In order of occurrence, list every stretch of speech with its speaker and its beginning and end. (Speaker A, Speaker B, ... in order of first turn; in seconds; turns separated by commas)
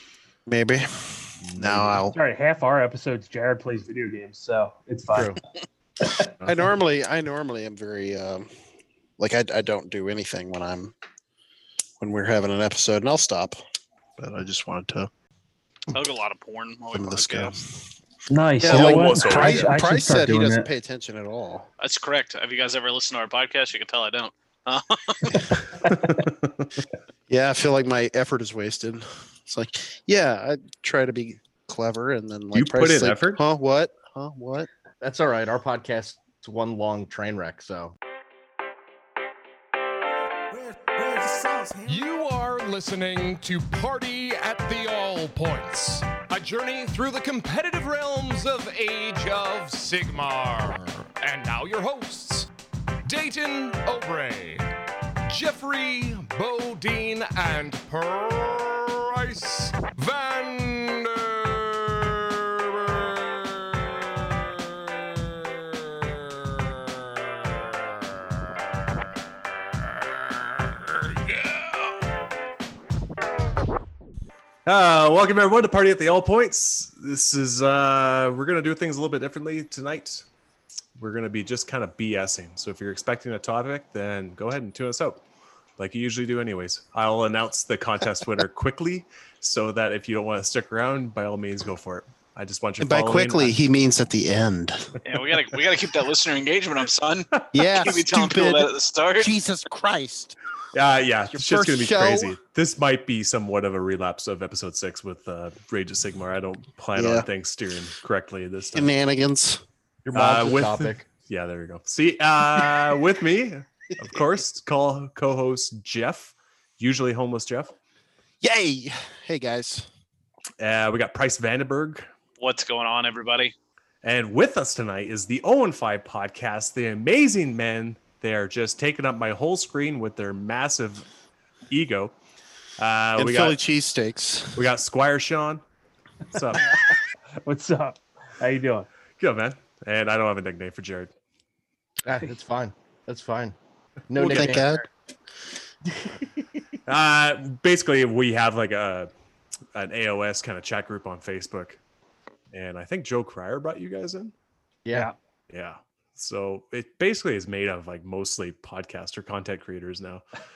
Speaker A: 0.5-2.2, Speaker B: 1.4-2.0, Speaker C: 2.1-5.4, Speaker D: 5.1-5.4, Speaker A: 6.5-8.5, Speaker A: 9.2-10.9, Speaker A: 12.0-13.6, Speaker A: 14.2-15.1, Speaker E: 15.9-17.6, Speaker A: 16.9-17.8, Speaker C: 18.3-20.7, Speaker A: 18.6-21.7, Speaker B: 18.6-19.8, Speaker E: 21.8-25.4, Speaker B: 25.8-26.7, Speaker A: 27.3-34.7, Speaker B: 32.5-33.4, Speaker D: 35.0-38.0, Speaker F: 40.5-52.5, Speaker F: 53.0-54.6, Speaker F: 55.3-64.6, Speaker F: 65.5-67.0, Speaker F: 68.4-68.9, Speaker F: 71.3-72.0, Speaker B: 74.7-80.2, Speaker B: 81.0-85.2, Speaker B: 85.8-93.6, Speaker A: 92.8-94.9, Speaker E: 95.0-99.3, Speaker A: 97.5-100.3, Speaker B: 100.7-108.9, Speaker A: 101.3-102.4, Speaker A: 107.0-107.3, Speaker A: 108.7-109.6, Speaker D: 110.0-111.1, Speaker B: 110.1-117.7, Speaker A: 118.4-119.9, Speaker B: 120.6-122.1, Speaker E: 122.4-123.5, Speaker B: 124.0-131.1, Speaker B: 131.7-132.1, Speaker B: 132.8-133.6, Speaker A: 133.2-134.7, Speaker B: 134.6-135.6, Speaker B: 136.3-136.8, Speaker C: 137.4-138.9, Speaker B: 139.2-141.1, Speaker D: 142.1-143.6, Speaker D: 144.1-144.9, Speaker A: 144.2-144.9, Speaker D: 145.9-146.4, Speaker B: 146.9-149.1, Speaker B: 149.8-151.8, Speaker B: 152.5-154.3, Speaker B: 155.5-160.2